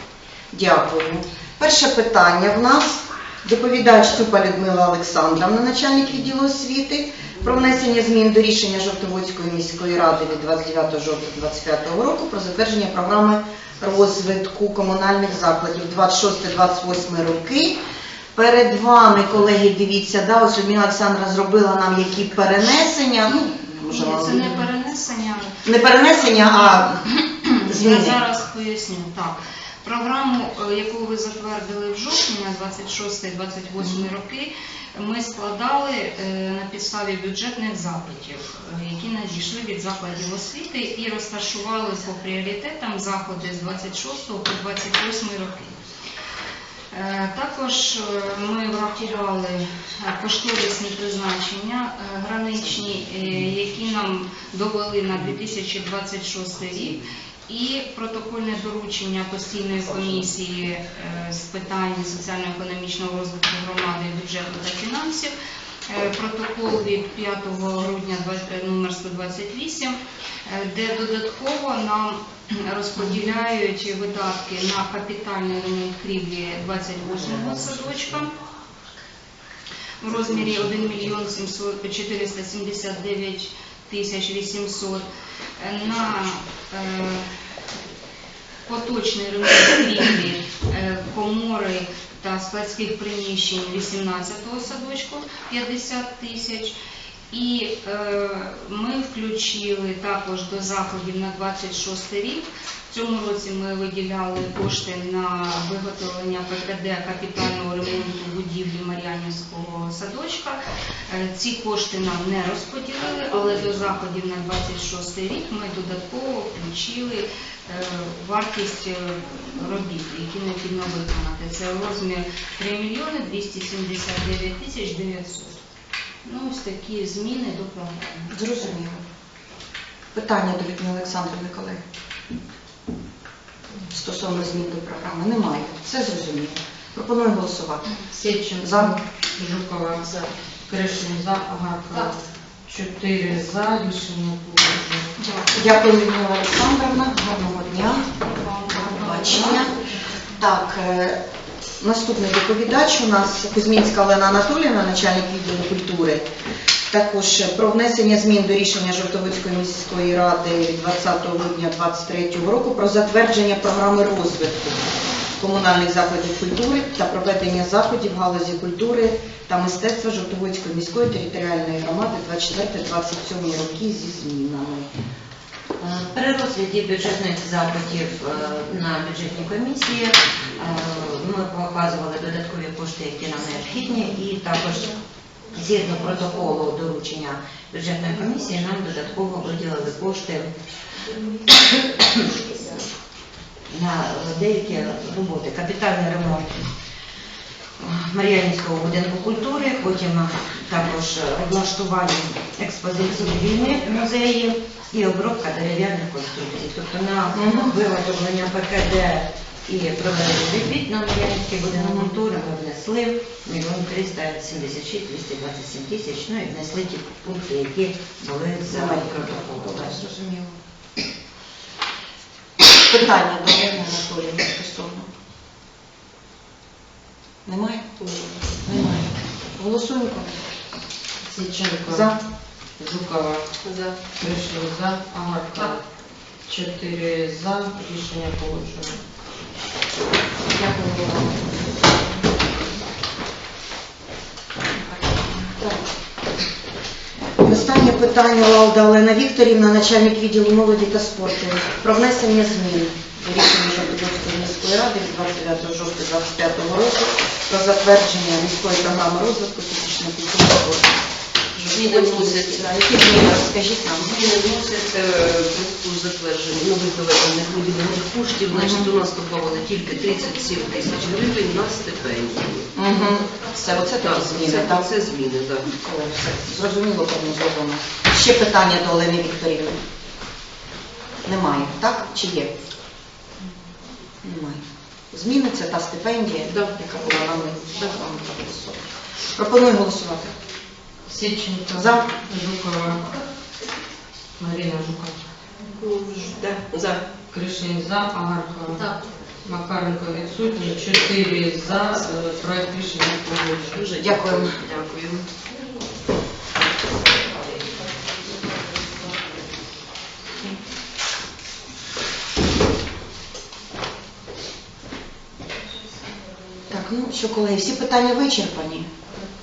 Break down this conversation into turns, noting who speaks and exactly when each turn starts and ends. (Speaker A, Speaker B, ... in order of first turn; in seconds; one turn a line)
Speaker A: 0.5-17.8
Speaker A: 18.3-24.6
Speaker B: 23.9-25.6
Speaker A: 25.7-27.0
Speaker B: 26.2-45.8
Speaker A: 27.7-28.2
Speaker B: 46.9-65.3
Speaker B: 65.9-78.3
Speaker B: 80.0-87.3
Speaker B: 88.7-96.8
Speaker B: 97.3-125.6
Speaker B: 126.2-128.3
Speaker A: 128.3-129.0
Speaker A: 130.1-131.8
Speaker A: 133.9-137.9
Speaker C: 138.1-140.1
Speaker A: 138.6-139.0
Speaker C: 140.7-145.1
Speaker B: 145.2-145.7
Speaker A: 145.5-148.1
Speaker B: 148.3-149.6
Speaker A: 148.7-149.7
Speaker A: 150.4-151.2
Speaker A: 151.8-156.2
Speaker A: 156.9-164.8
Speaker A: 165.4-174.9
Speaker D: 175.8-185.0
Speaker D: 185.5-190.5
Speaker D: 192.0-192.3
Speaker D: 193.7-196.5
Speaker D: 197.8-219.9
Speaker A: 207.3-207.8
Speaker A: 211.7-212.1
Speaker A: 218.7-220.6
Speaker A: 222.9-225.1
Speaker A: 227.5-227.9
Speaker E: 228.0-228.4
Speaker A: 228.6-230.4
Speaker C: 231.2-232.1
Speaker A: 231.9-232.2
Speaker C: 232.8-233.4
Speaker E: 233.6-234.0
Speaker C: 234.2-235.8
Speaker C: 236.5-239.0
Speaker A: 240.5-241.6
Speaker A: 244.8-245.8
Speaker A: 247.4-261.0
Speaker E: 261.6-263.3
Speaker A: 261.6-264.2
Speaker E: 264.0-272.7
Speaker A: 268.5-268.9
Speaker A: 272.8-274.9
Speaker E: 274.0-275.7
Speaker A: 275.7-279.8
Speaker A: 281.2-282.5
Speaker A: 284.2-290.3
Speaker C: 291.1-293.1
Speaker A: 291.7-292.0
Speaker C: 294.4-295.2
Speaker E: 295.8-297.0
Speaker C: 297.3-298.9
Speaker C: 299.4-303.8
Speaker E: 303.7-305.2
Speaker A: 303.9-304.6
Speaker A: 316.7-318.9